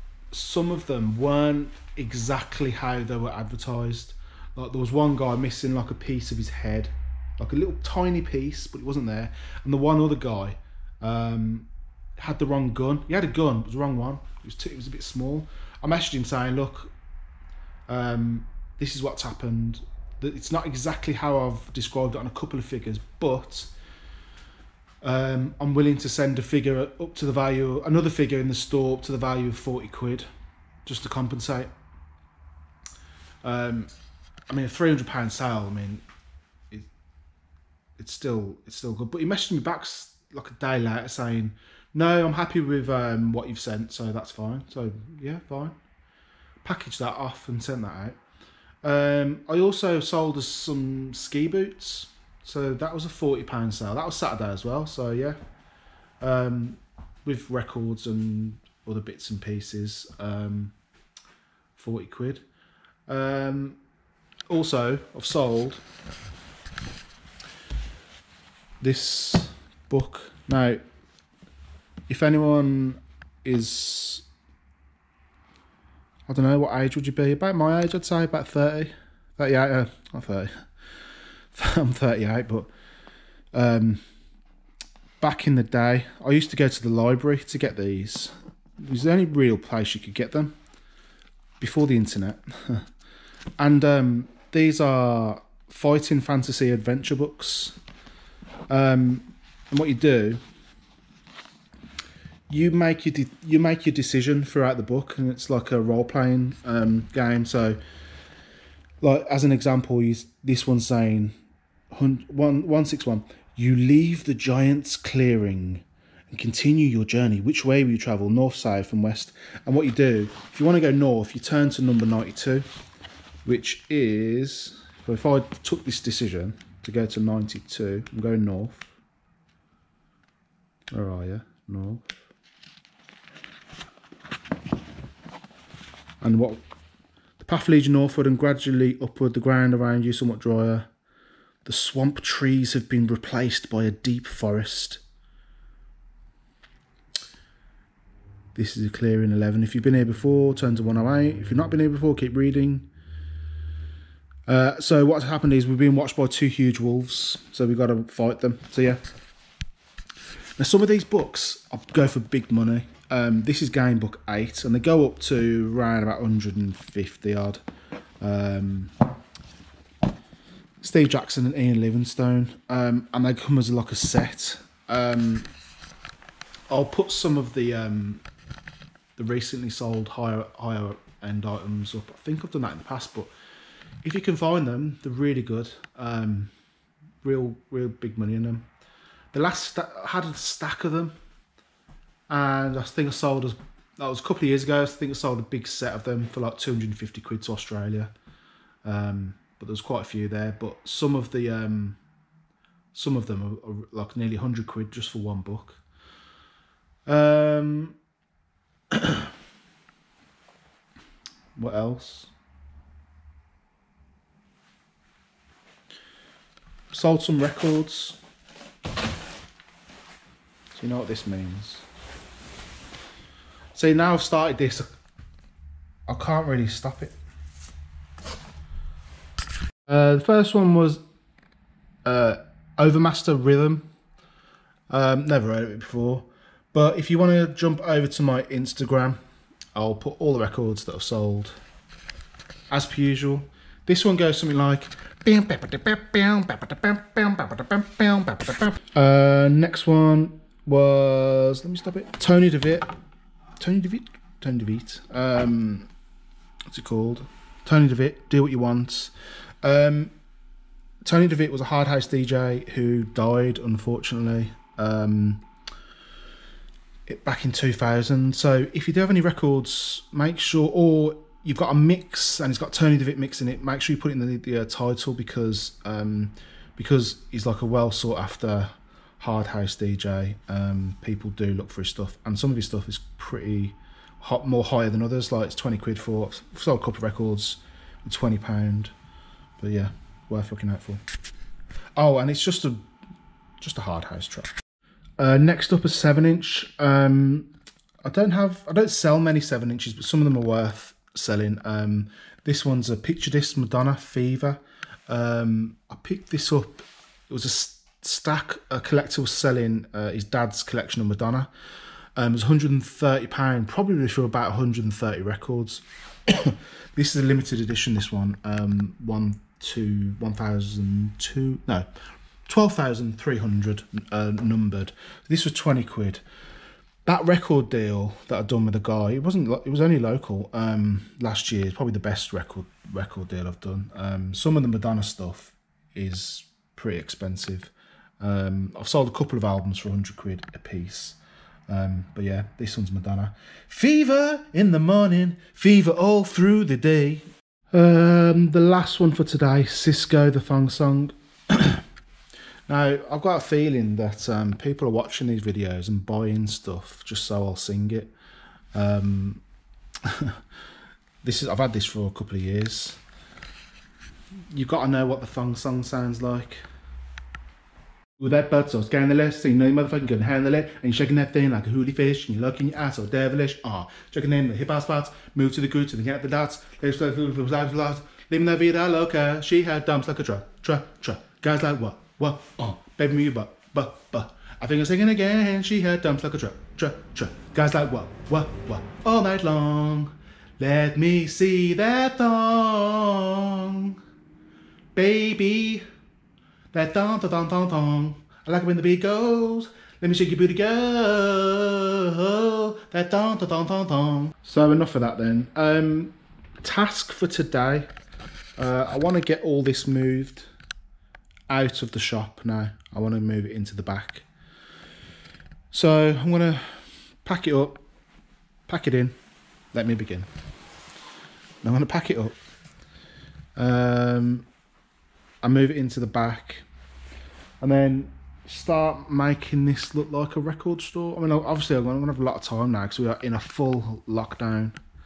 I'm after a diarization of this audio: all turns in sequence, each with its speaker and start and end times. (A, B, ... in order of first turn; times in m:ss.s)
0:00.3-0:16.9 A
0:17.9-0:23.7 A
0:25.0-0:30.3 A
0:30.8-0:31.7 A
0:33.4-0:33.9 A
0:34.5-0:36.0 A
0:38.0-0:45.8 A
0:46.6-0:48.2 A
0:48.8-0:55.4 A
0:56.2-1:00.7 A
1:01.8-1:02.4 A
1:03.1-1:03.8 A
1:04.5-1:05.8 A
1:08.8-1:10.8 A
1:12.1-1:14.2 A
1:16.3-1:20.6 A
1:21.5-1:22.7 A
1:23.5-1:24.0 A
1:25.2-1:30.5 A
1:31.6-1:32.9 A
1:33.6-1:37.8 A
1:38.7-1:40.4 A
1:42.5-1:47.8 A
1:49.0-1:51.3 A
1:51.9-2:02.6 A
2:03.4-2:08.9 A
2:10.9-2:12.1 A
2:16.2-2:16.6 A
2:17.4-2:20.9 A
2:21.6-2:25.0 A
2:28.5-2:32.9 A
2:34.5-2:39.0 A
2:40.6-2:47.6 A
2:48.2-2:48.9 A
2:50.8-2:55.5 A
2:56.7-2:58.2 A
2:59.2-3:03.3 A
3:04.0-3:06.5 A
3:07.2-3:08.7 A
3:09.3-3:11.1 A
3:12.3-3:18.1 A
3:18.8-3:22.0 A
3:22.9-3:25.8 A
3:27.1-3:28.0 A
3:28.9-3:29.3 A
3:31.6-3:32.3 A
3:36.9-3:38.2 A
3:40.7-3:41.8 A
3:43.7-3:44.9 A
3:46.1-3:47.2 A
3:49.9-3:51.0 A
3:52.0-3:53.8 A
3:54.9-3:59.2 A
3:59.7-4:01.6 A
4:02.7-4:12.9 A
4:13.6-4:15.9 A
4:16.7-4:20.1 A
4:21.0-4:25.4 A
4:27.1-4:48.9 A
4:49.6-4:51.0 A
4:52.0-4:52.9 A
4:53.6-4:54.5 A
4:55.2-4:57.5 A
4:58.0-5:11.5 A
5:12.2-5:21.9 A
5:22.4-5:26.2 A
5:27.0-5:51.8 A
5:52.7-5:58.1 A
5:58.7-5:59.4 A
6:00.0-6:00.4 A
6:01.2-6:03.0 A
6:04.5-6:06.6 A
6:08.2-6:34.0 A
6:34.9-6:35.8 A
6:36.7-6:47.9 A
6:48.6-6:50.5 A
6:51.5-6:54.3 A
6:55.7-6:57.8 A
6:58.7-6:59.2 A
6:59.7-7:00.3 A
7:01.6-7:02.4 A
7:03.6-7:04.5 A
7:05.4-7:06.6 A
7:07.6-7:14.8 A